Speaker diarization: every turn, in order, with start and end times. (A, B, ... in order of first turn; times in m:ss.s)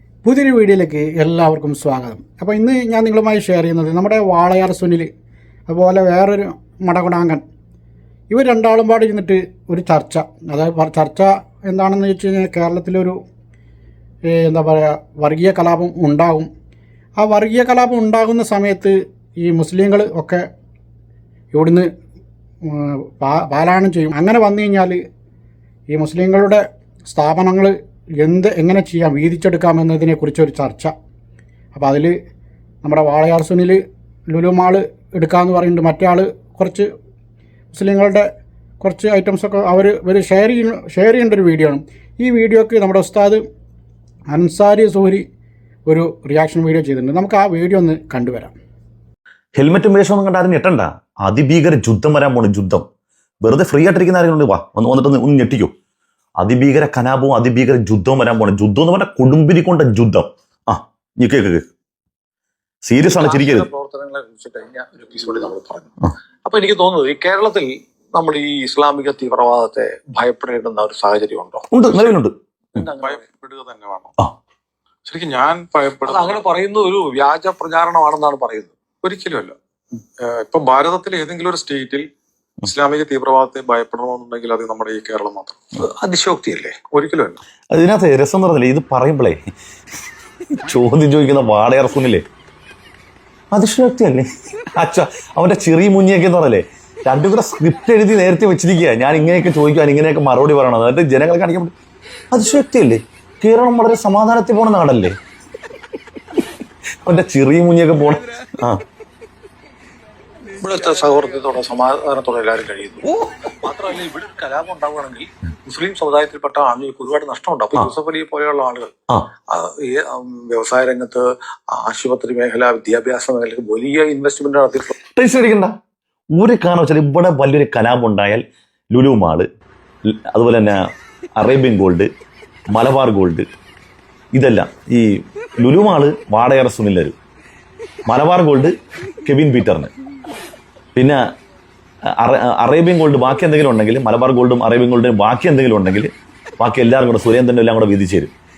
0:00.2-0:05.1 A
0:05.7-0:07.4 A
0:08.3-0:13.2 A
0:14.3-0:16.5 A
0:17.2-0:20.4 A
0:21.5-0:21.9 A
0:22.6-0:25.0 A
0:25.9-0:30.9 A
0:31.7-0:32.1 A
0:32.8-0:33.8 A
0:34.3-0:36.9 A
0:37.7-0:38.3 A
0:38.8-0:43.4 A
0:44.3-0:45.2 A
0:45.9-0:48.5 A
0:49.6-0:52.8 B
0:53.4-0:55.7 B
0:56.4-1:01.6 B
1:02.8-1:03.7 B
1:03.1-1:11.7 C
1:11.7-1:12.3 B
1:12.7-1:13.2 C
1:13.0-1:14.1 D
1:15.0-1:16.5 D
1:16.0-1:18.7 C
1:19.0-1:19.5 D
1:20.2-1:22.0 D
1:22.6-1:25.6 D
1:25.8-1:26.8 C
1:26.9-1:27.4 D
1:27.7-1:29.4 B
1:30.5-1:32.2 B
1:33.5-1:41.7 B
1:42.3-1:45.1 B
1:47.0-1:48.8 B
1:50.6-1:53.1 C
1:53.6-1:58.9 C
1:59.5-2:05.0 C
2:05.2-2:05.7 B
2:06.3-2:09.4 B
2:10.1-2:10.8 B
2:11.4-2:12.1 B
2:12.7-2:13.4 B
2:14.3-2:17.1 B
2:18.1-2:19.9 B
2:22.1-2:28.3 B